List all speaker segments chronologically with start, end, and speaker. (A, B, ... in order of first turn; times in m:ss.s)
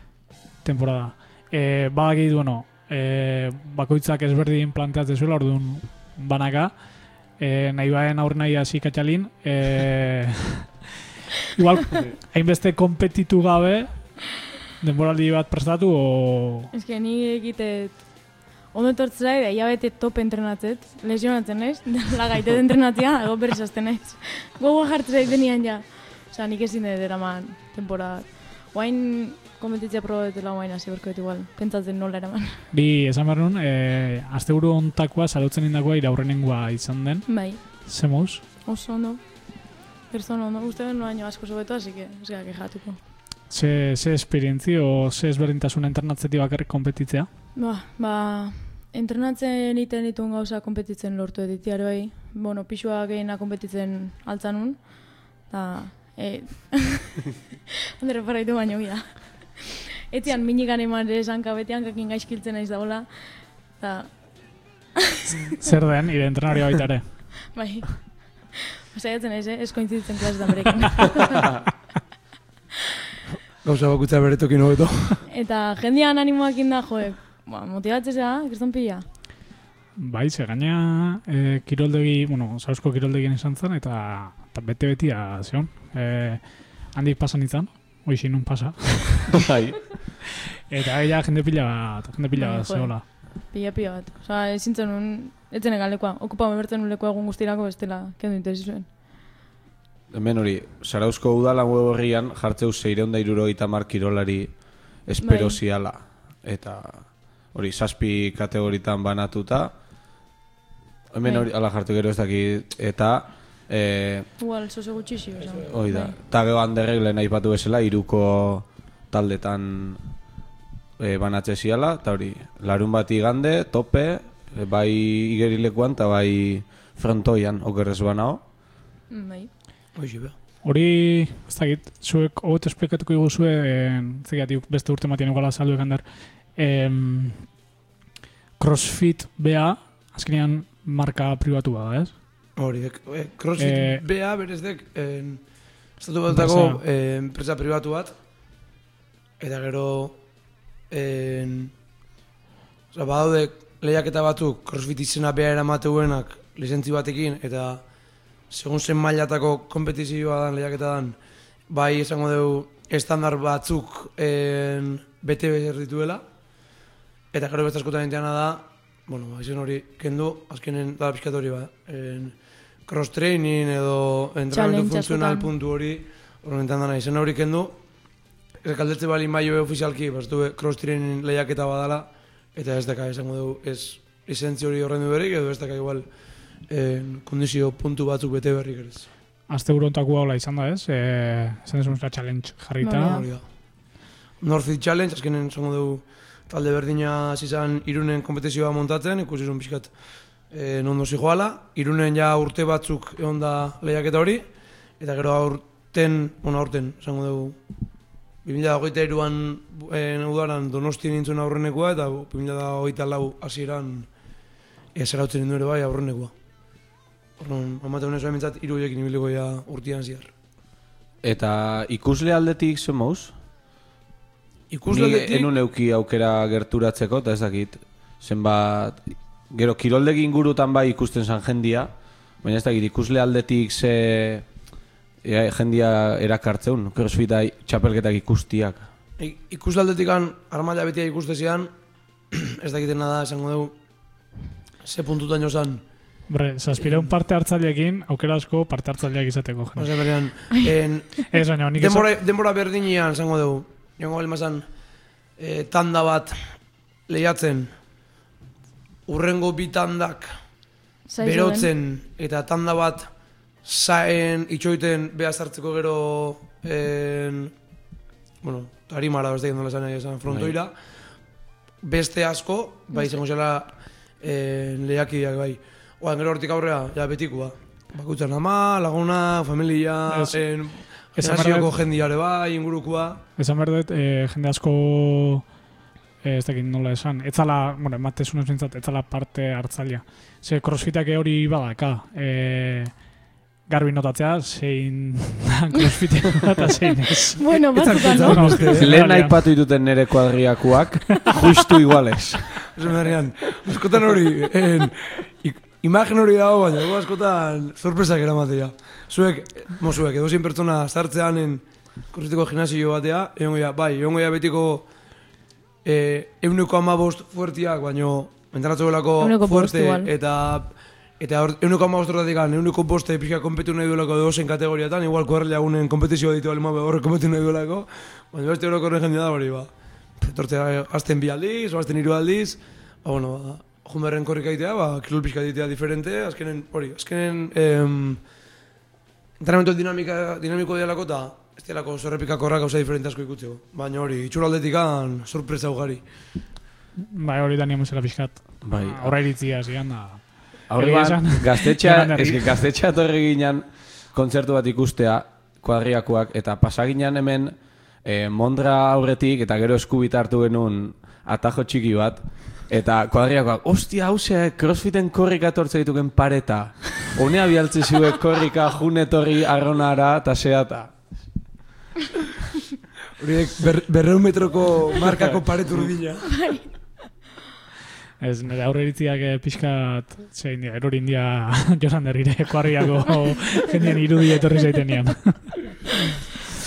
0:00.6-0:06.8 A
0:07.4-0:10.6 A
0:11.5-0:14.2 A
0:14.8-0:16.7 A
0:16.7-0:32.6 B
0:32.7-0:38.4 A
0:37.3-0:37.9 B
0:38.6-0:43.0 B
0:43.5-0:47.3 A
0:47.6-0:57.2 B
0:58.0-1:04.7 B
1:05.2-1:05.5 B
1:05.6-1:07.5 A
1:07.5-1:11.5 B
1:13.6-1:15.2 C
1:15.3-1:19.0 B
1:20.0-1:29.4 A
1:29.4-1:29.9 D
1:30.7-1:33.0 A
1:32.4-1:38.9 B
1:40.1-1:49.7 D
1:45.2-1:45.6 B
1:51.1-1:54.3 D
1:54.4-1:56.1 B
1:55.4-1:55.6 C
1:55.7-2:00.0 D
2:01.0-2:08.4 D
2:09.1-2:09.5 B
2:09.9-2:10.3 C
2:10.6-2:17.4 A
2:18.6-2:22.1 A
2:22.6-2:25.4 C
2:23.6-2:24.0 A
2:26.0-2:28.1 C
2:26.3-2:26.8 A
2:29.4-2:30.2 C
2:30.9-2:31.7 C
2:32.9-2:37.8 C
2:38.5-2:41.2 C
2:41.7-2:46.2 C
2:47.3-2:52.3 C
2:52.9-2:57.8 C
2:54.5-2:55.5 B
2:58.6-3:06.1 C
3:06.7-3:09.1 C
3:09.5-3:13.2 A
3:12.8-3:13.3 B
3:13.0-3:13.4 C
3:14.4-3:19.9 C
3:20.5-3:24.4 C
3:25.0-3:27.6 C
3:28.4-3:34.1 C
3:34.9-3:36.3 C
3:37.4-3:40.3 C
3:41.2-3:43.3 D
3:44.7-3:45.5 C
3:44.9-3:54.4 D
3:55.2-3:58.9 D
3:59.2-4:01.7 C
4:02.3-4:03.7 C
4:04.8-4:05.8 C
4:06.3-4:10.0 A
4:06.8-4:07.1 C
4:09.8-4:14.6 C
4:11.3-4:12.0 A
4:15.4-4:16.4 C
4:17.1-4:17.7 C
4:19.1-4:20.4 C
4:21.1-4:21.7 B
4:21.2-4:23.1 C
4:23.6-4:27.5 C
4:28.4-4:30.7 C
4:30.3-4:30.6 D
4:31.8-4:43.2 C
4:40.1-4:40.4 A
4:41.1-4:41.7 A
4:43.4-4:45.4 A
4:46.2-4:53.0 A
4:53.7-4:59.4 A
4:57.4-4:58.7 B
4:57.7-4:58.9 C
4:58.7-5:02.5 D
5:02.7-5:14.9 C
5:15.8-5:38.2 C
5:19.2-5:20.1 B
5:39.4-5:46.0 C
5:47.1-5:52.5 A
5:48.6-5:49.2 D
5:50.7-6:10.9 D
6:13.2-6:16.4 C
6:16.3-6:16.6 B
6:18.2-6:25.6 A